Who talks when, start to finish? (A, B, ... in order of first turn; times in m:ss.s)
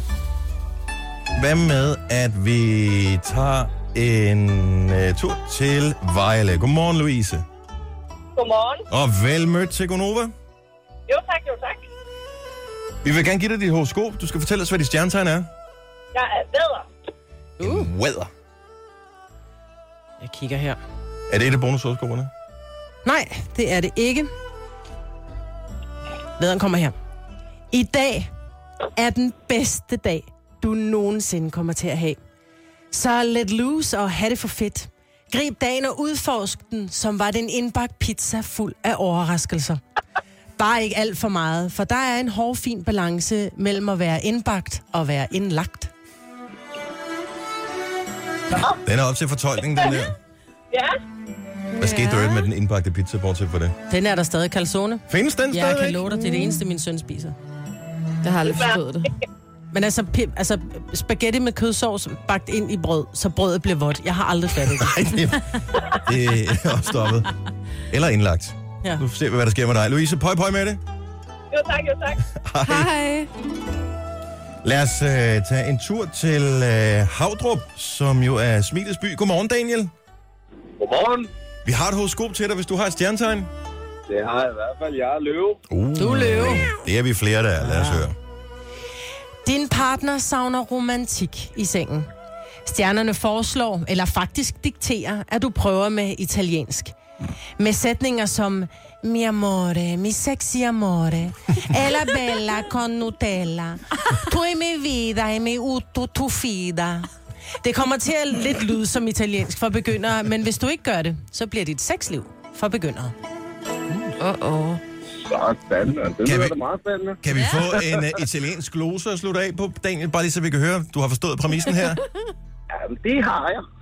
0:01.4-0:07.4 A
0:08.4-0:08.9 B
0:08.9-0:10.3 A
0:11.1-0:11.9 B
0:13.0-0:15.5 A
0:16.1-0:16.9 B
0:17.6-0:17.9 C
0:17.6-0:18.3 A
0:20.2-0:20.8 C
0:21.3-0:22.3 A
0:23.0-0:24.3 C
0:26.4-0:26.9 C
0:27.7-0:28.3 C
0:29.0-0:32.2 C
0:32.9-0:39.8 C
0:40.6-0:45.9 C
0:48.7-0:50.2 A
0:49.8-0:50.0 B
0:50.7-0:51.0 B
0:51.8-0:52.3 D
0:51.8-0:53.7 A
0:53.9-0:57.4 C
0:55.1-0:56.0 A
0:58.2-0:59.1 D
0:58.5-0:58.8 B
0:59.7-1:05.2 C
1:04.8-1:07.3 A
1:07.9-1:10.8 A
1:11.5-1:12.2 B
1:12.3-1:12.9 A
1:12.6-1:13.3 D
1:14.6-1:19.9 A
1:20.8-1:21.3 E
1:21.6-1:23.5 A
1:24.1-1:25.6 E
1:25.7-1:28.2 A
1:26.0-1:26.7 C
1:27.6-1:28.1 C
1:29.4-1:32.1 C
1:32.6-1:36.9 C
1:37.6-1:47.1 C
1:47.6-1:53.1 C
1:54.2-1:54.8 D
1:55.2-1:57.2 E
1:56.2-1:56.6 A
1:57.2-2:02.0 A
2:02.7-2:03.6 E